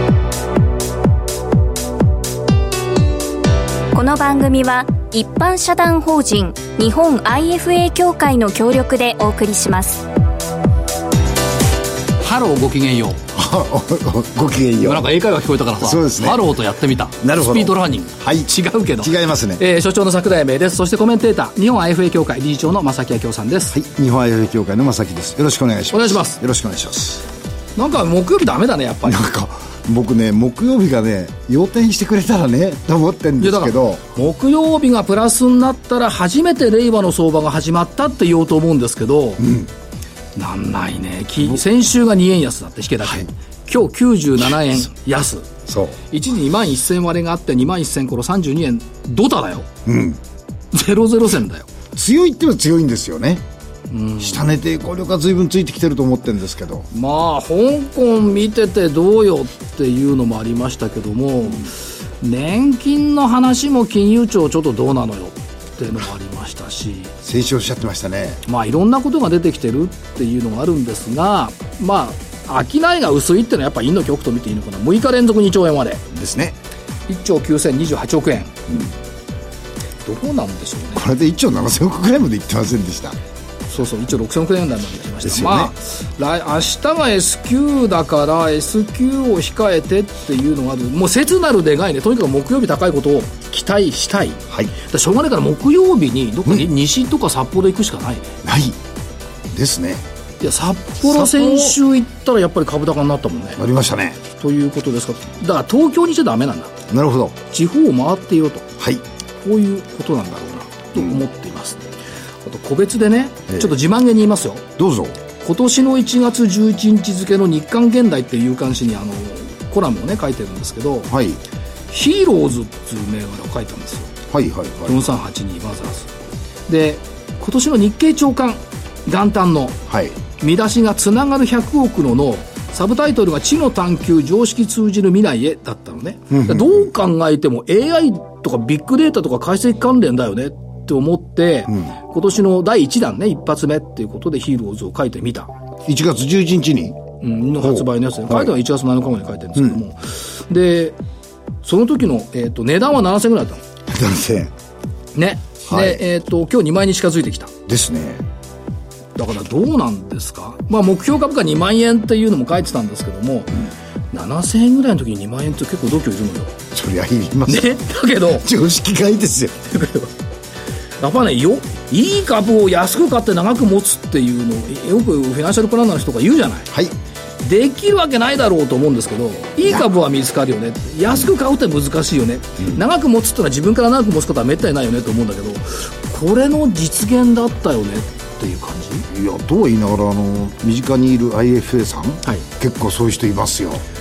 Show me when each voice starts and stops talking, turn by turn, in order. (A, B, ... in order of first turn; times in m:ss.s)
0:03.9-0:10.1 A
0:12.2-0:13.2 B
0:13.3-0:15.1 C
0:14.8-0:23.8 B
0:15.8-0:16.5 C
0:17.2-0:19.6 C
0:23.7-0:27.2 C
0:25.9-0:26.4 B
0:27.8-0:29.2 B
0:29.0-0:34.0 C
0:33.4-0:39.4 B
0:39.4-0:39.7 C
0:40.4-0:45.5 B
0:45.6-0:46.0 C
0:46.1-0:49.7 B
0:49.8-0:50.2 C
0:50.7-0:51.7 B
0:51.9-0:53.4 C
0:53.9-0:54.5 B
0:54.2-0:56.9 C
0:56.9-1:07.1 B
1:07.2-1:08.4 C
1:08.4-1:16.0 B
1:16.1-1:16.6 C
1:17.1-1:18.5 B
1:20.0-1:21.0 B
1:20.9-1:23.2 C
1:23.7-1:38.4 B
1:25.2-1:25.7 C
1:38.4-1:38.8 C
1:39.5-1:40.0 C
1:40.4-1:43.6 B
1:41.0-1:41.8 C
1:43.6-1:44.2 C
1:44.3-1:46.8 B
1:46.9-1:47.4 C
1:47.5-1:48.6 B
1:48.8-1:49.0 C
1:49.4-1:51.9 B
1:50.9-1:51.2 C
1:52.4-1:54.6 B
1:53.5-1:53.8 C
1:54.8-1:55.2 C
1:55.4-2:01.1 B
2:01.1-2:01.4 C
2:01.9-2:04.1 B
2:04.3-2:05.0 C
2:04.8-2:06.1 B
2:06.7-2:09.8 B
2:09.9-2:10.2 C
2:10.4-2:25.5 B
2:16.3-2:16.8 C
2:25.8-2:27.0 C
2:27.2-2:31.0 B
2:27.6-2:28.5 C
2:29.5-2:29.8 C
2:31.6-2:33.6 B
2:33.9-2:34.5 C
2:35.1-2:37.5 B
2:35.6-2:36.0 C
2:37.7-2:38.2 C
2:39.2-2:46.5 B
2:46.7-2:49.7 C
2:47.5-2:48.5 B
2:49.7-2:50.1 B
2:51.0-2:56.7 B
2:57.4-3:09.1 B
3:09.1-3:13.8 C